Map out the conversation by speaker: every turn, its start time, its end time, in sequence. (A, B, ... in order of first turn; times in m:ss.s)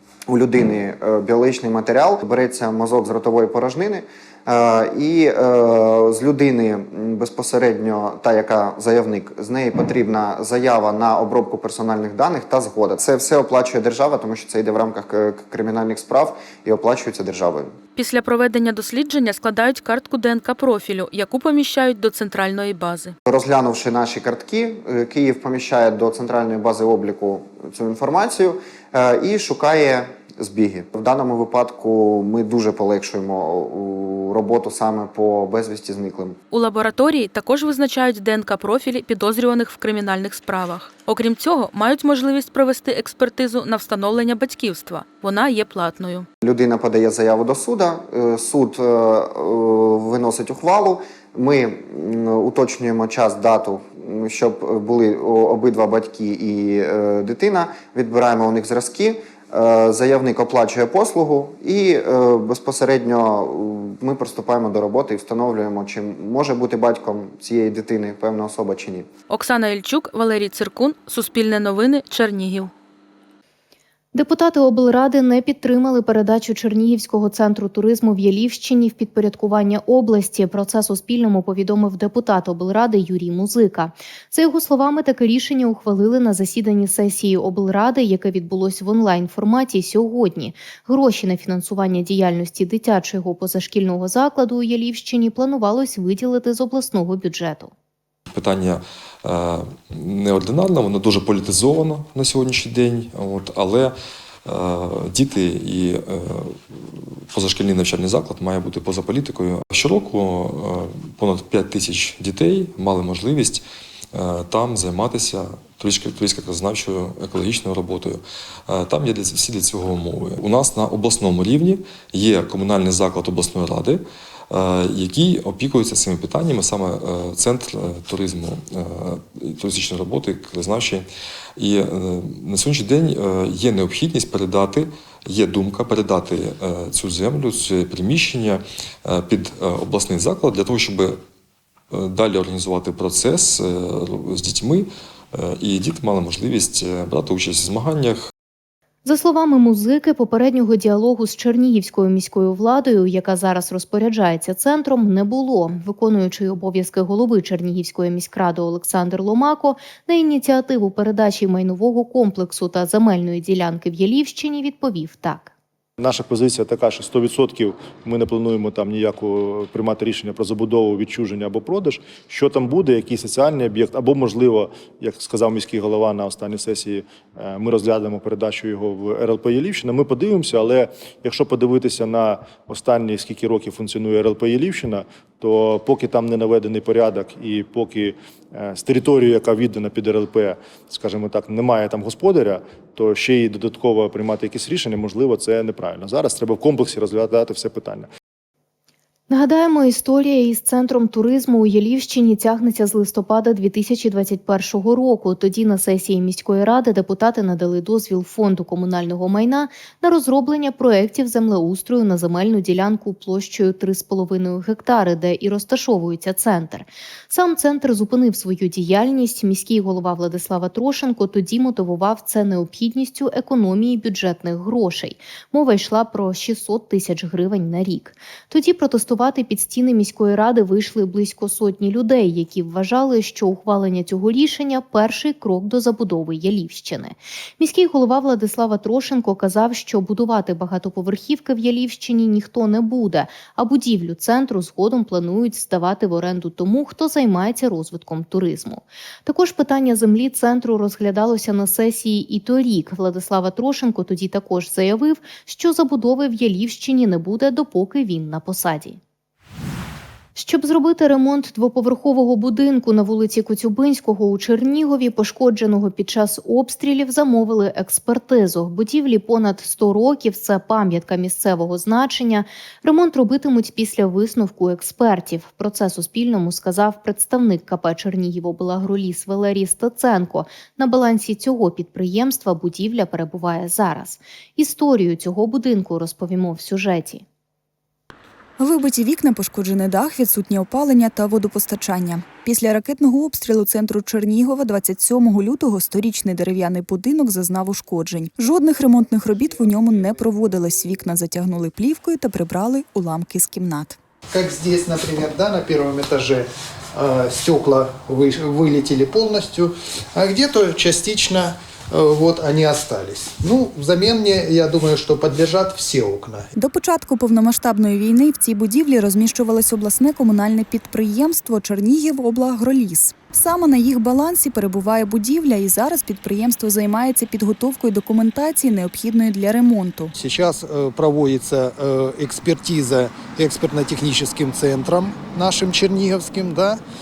0:00.3-0:17.7 A
0:18.0-0:23.1 B
0:23.3-0:36.4 A
0:36.5-0:46.3 B
0:46.4-1:09.1 A
1:09.3-1:12.7 B
1:14.1-1:37.7 C
1:38.3-1:43.9 D
1:44.5-1:46.6 D
1:47.3-1:53.6 D
1:54.1-2:11.1 D
2:11.6-2:21.2 D
2:21.9-2:28.3 D
2:29.0-2:45.5 C
2:46.0-3:18.1 E
3:19.3-4:19.0 C
4:20.4-4:47.2 C
4:48.6-5:04.0 F
5:04.3-5:16.5 G
5:16.6-5:30.1 F
5:30.2-5:36.8 G